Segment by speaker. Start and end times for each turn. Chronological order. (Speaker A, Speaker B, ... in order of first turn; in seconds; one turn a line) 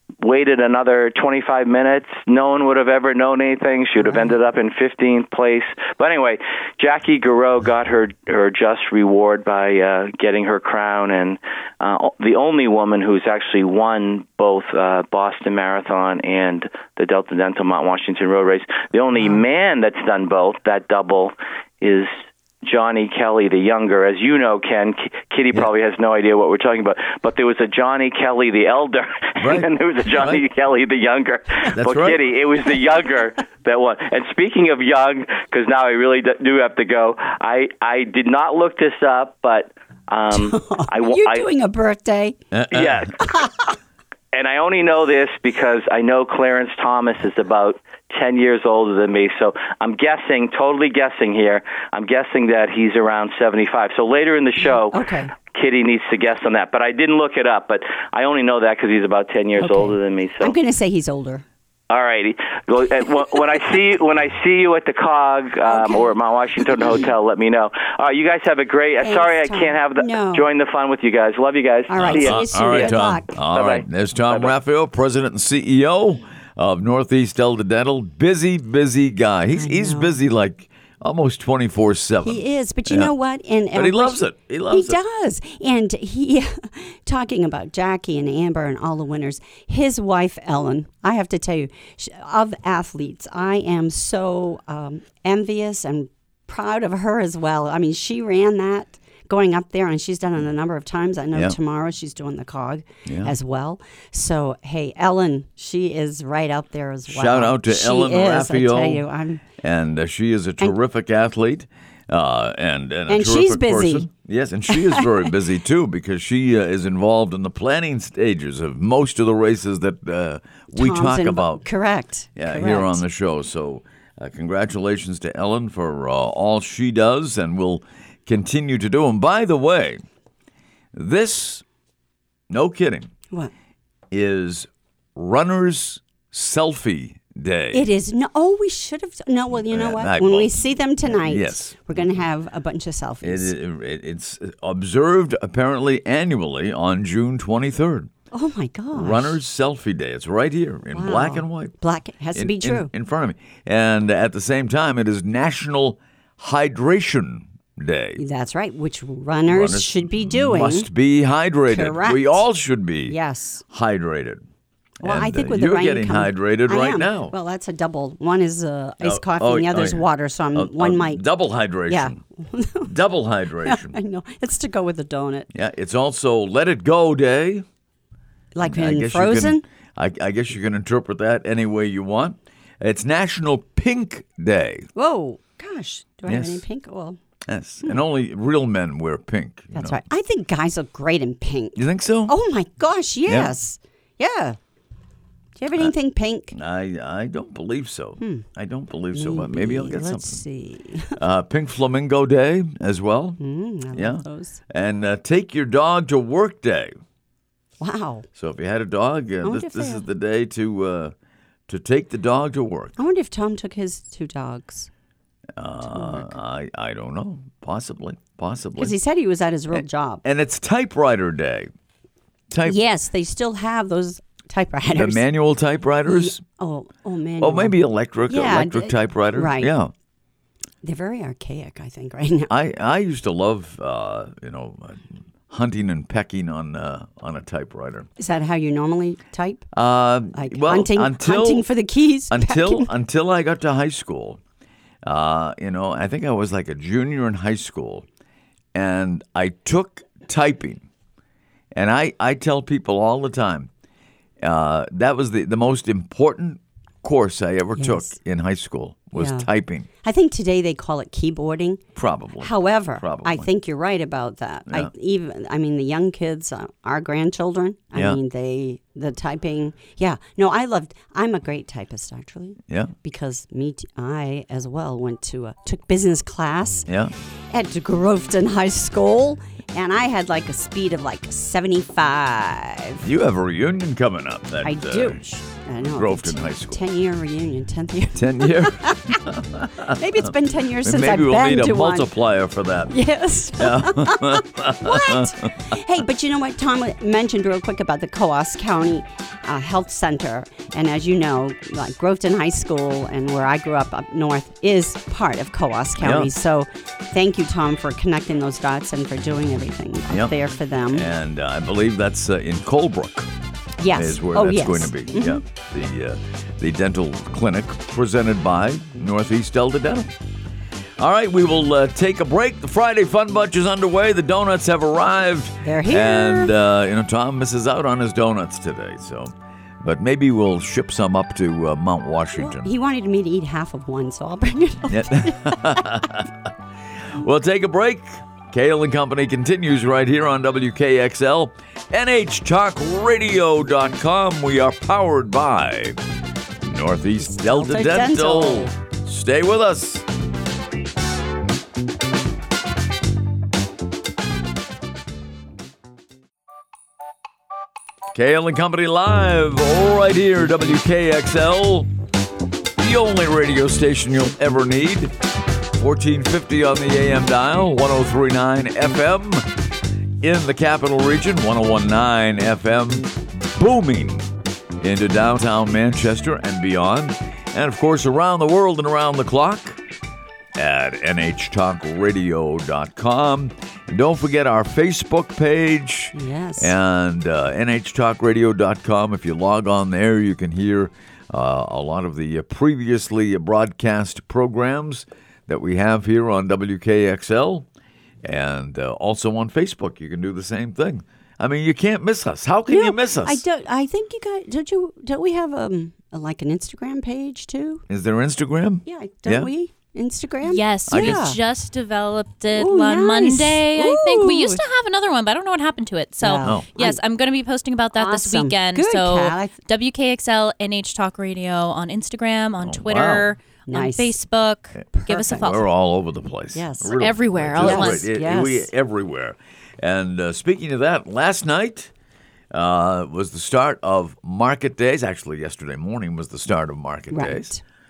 Speaker A: 0.2-41.5
Speaker B: 29.4-30.4
Speaker B: 31.7-32.2
Speaker C: 40.3-42.4
Speaker B: 42.5-43.1
Speaker A: 42.7-43.7
Speaker A: 44.3-60.5
Speaker C: 54.9-55.3
Speaker C: 59.6-61.4
Speaker A: 61.9-74.5
Speaker C: 65.7-67.1
Speaker C: 69.0-70.5
Speaker C: 71.9-73.3
Speaker B: 72.0-83.1
Speaker C: 79.5-80.2
Speaker C: 82.2-109.4
Speaker B: 83.7-85.0
Speaker B: 103.0-103.3
Speaker B: 107.1-109.0
Speaker B: 109.6-121.6
Speaker C: 113.1-114.1
Speaker C: 114.7-115.3
Speaker C: 120.7-123.0
Speaker B: 122.3-130.0
Speaker B: 130.9-131.6
Speaker B: 132.5-133.1
Speaker B: 134.1-137.8
Speaker C: 137.7-143.5
Speaker B: 139.7-141.9
Speaker B: 143.2-148.1
Speaker C: 148.3-149.4
Speaker B: 148.9-151.7
Speaker C: 150.9-152.9
Speaker B: 152.3-158.2
Speaker C: 158.2-160.9
Speaker B: 159.5-163.2
Speaker C: 161.7-162.4
Speaker C: 163.1-163.6
Speaker B: 163.7-164.4
Speaker B: 165.0-167.3
Speaker C: 165.0-171.2
Speaker B: 169.0-172.2
Speaker C: 171.9-172.9
Speaker B: 172.8-174.0
Speaker C: 173.6-175.5
Speaker B: 175.5-177.6
Speaker C: 178.5-179.6
Speaker B: 178.6-184.9
Speaker C: 184.9-187.2
Speaker B: 186.3-186.6
Speaker B: 187.4-190.0
Speaker C: 189.7-194.6
Speaker B: 191.8-192.3
Speaker B: 193.2-193.5
Speaker C: 195.6-196.5
Speaker B: 196.5-200.4
Speaker C: 198.2-198.5
Speaker C: 199.1-201.2
Speaker B: 201.2-203.4
Speaker C: 203.4-204.6
Speaker B: 203.9-207.0
Speaker C: 207.8-208.3
Speaker B: 208.3-211.1
Speaker C: 209.4-210.0
Speaker B: 211.7-212.9
Speaker C: 213.0-214.9
Speaker B: 215.6-218.9
Speaker C: 215.8-216.3
Speaker C: 218.8-220.2
Speaker B: 219.7-221.7
Speaker B: 222.5-222.8
Speaker C: 222.6-225.2
Speaker B: 224.9-226.4
Speaker C: 226.1-229.7
Speaker B: 227.4-229.9
Speaker C: 230.8-232.5
Speaker B: 232.5-238.1
Speaker C: 238.2-239.7
Speaker B: 239.7-241.7
Speaker C: 240.3-242.9
Speaker B: 242.3-244.4
Speaker B: 245.0-248.0
Speaker B: 248.7-250.8
Speaker B: 251.7-253.7
Speaker B: 254.4-259.9
Speaker C: 257.7-258.1
Speaker C: 259.1-259.5
Speaker C: 260.0-261.8
Speaker B: 261.9-263.5
Speaker C: 262.4-276.9
Speaker B: 272.7-272.9
Speaker B: 276.9-277.1
Speaker C: 277.5-283.1
Speaker B: 283.0-285.2
Speaker C: 284.6-289.2
Speaker B: 285.8-286.8
Speaker B: 288.2-290.0
Speaker C: 289.8-292.1
Speaker B: 290.8-292.9
Speaker C: 292.9-311.1
Speaker B: 293.6-295.8
Speaker B: 306.0-306.3
Speaker B: 310.9-313.3
Speaker C: 313.8-315.4
Speaker B: 313.9-320.1
Speaker B: 321.0-332.7
Speaker C: 325.6-326.5
Speaker C: 332.4-336.0
Speaker B: 334.9-336.5
Speaker B: 337.1-346.0
Speaker B: 346.6-350.0
Speaker C: 347.3-348.7
Speaker B: 358.1-361.9
Speaker B: 362.8-365.1
Speaker B: 365.7-369.5
Speaker B: 370.2-379.8
Speaker B: 380.5-397.7
Speaker C: 386.1-386.7
Speaker B: 398.2-403.4
Speaker C: 402.7-407.8
Speaker B: 407.9-409.5
Speaker C: 408.9-411.4
Speaker D: 410.4-425.6
Speaker B: 410.9-411.3
Speaker C: 412.5-414.6
Speaker C: 416.2-417.0
Speaker C: 417.9-419.5
Speaker B: 422.6-423.3
Speaker C: 423.7-424.1
Speaker B: 424.8-431.9
Speaker C: 424.9-425.6
Speaker C: 426.5-427.0
Speaker D: 426.9-428.1
Speaker C: 427.5-428.7
Speaker B: 432.5-437.5
Speaker C: 437.1-437.6